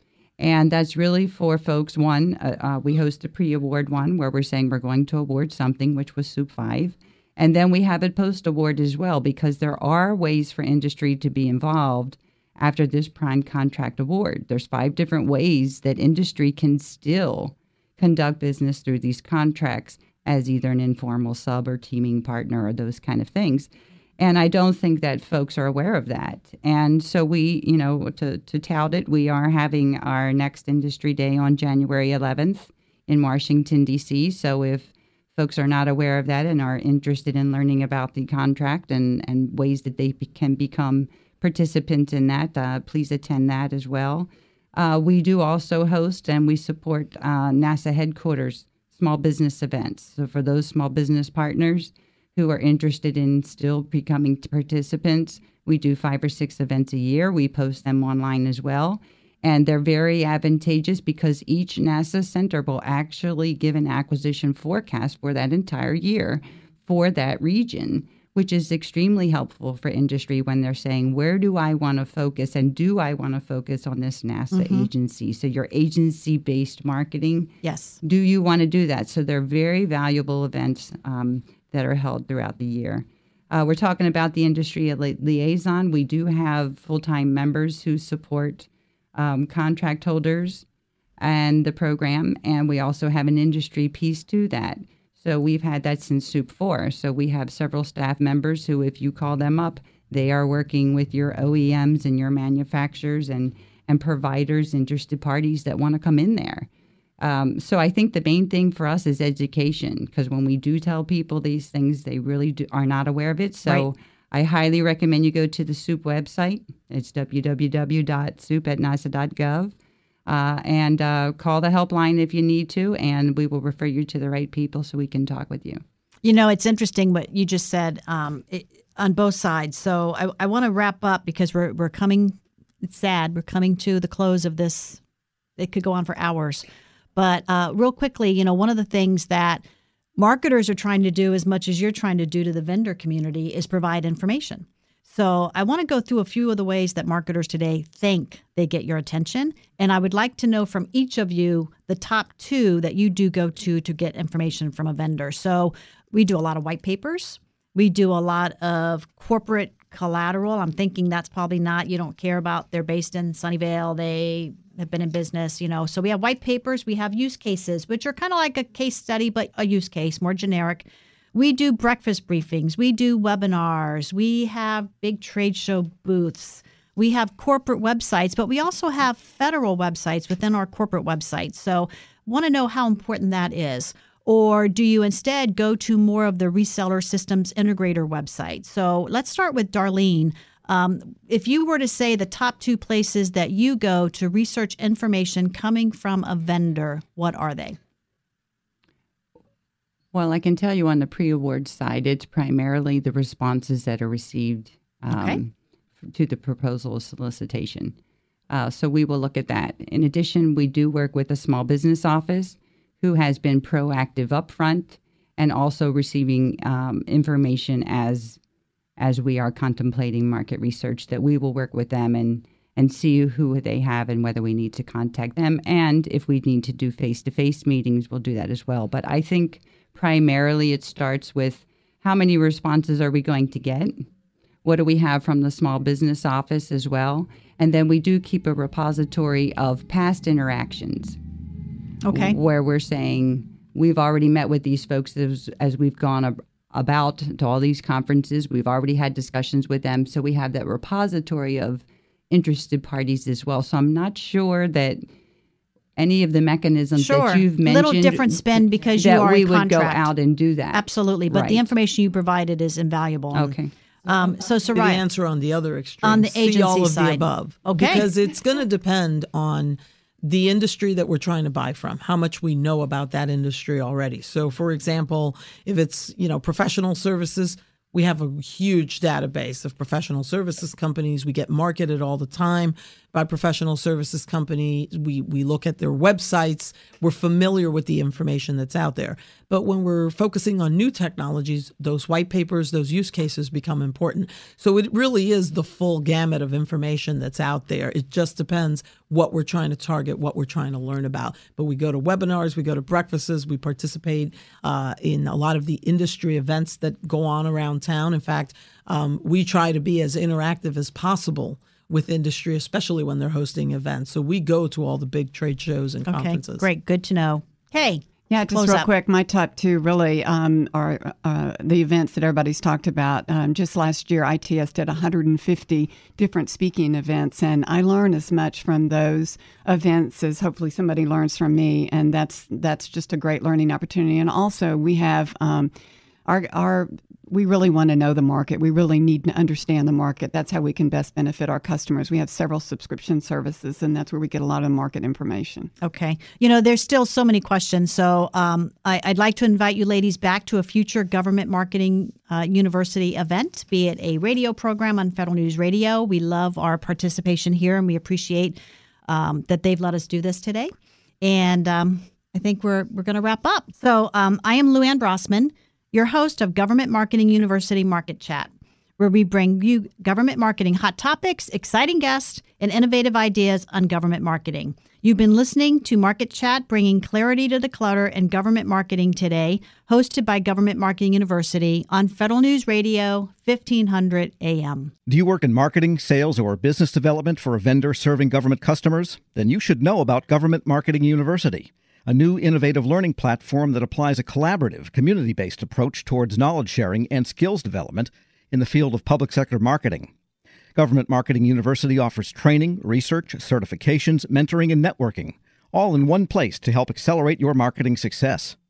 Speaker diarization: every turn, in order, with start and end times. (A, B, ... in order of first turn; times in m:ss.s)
0:00.4-0:23.7 A
0:24.2-1:30.6 A
1:14.5-1:14.9 B
1:17.6-1:18.0 B
1:31.2-1:46.7 A
1:47.2-1:59.7 A
2:00.3-2:05.8 A
2:06.2-2:15.0 B
2:15.6-2:19.6 B
2:20.2-3:17.8 B
3:20.1-3:28.0 A
3:25.1-3:25.4 B
3:28.5-3:38.4 A
3:39.0-3:54.1 A
3:54.6-4:01.2 A
4:02.0-4:02.4 B
4:02.1-4:15.0 A
4:16.0-4:21.6 A
4:17.0-4:20.1 B
4:20.7-4:23.6 B
4:23.3-4:23.7 A
4:24.1-4:25.0 B
4:24.1-5:16.7 C
4:26.0-4:28.1 B
5:16.1-5:18.9 B
5:18.3-5:35.7 D
5:36.3-5:45.7 D
5:45.8-6:24.9 B
6:25.1-6:40.1 E
6:40.8-6:48.6 E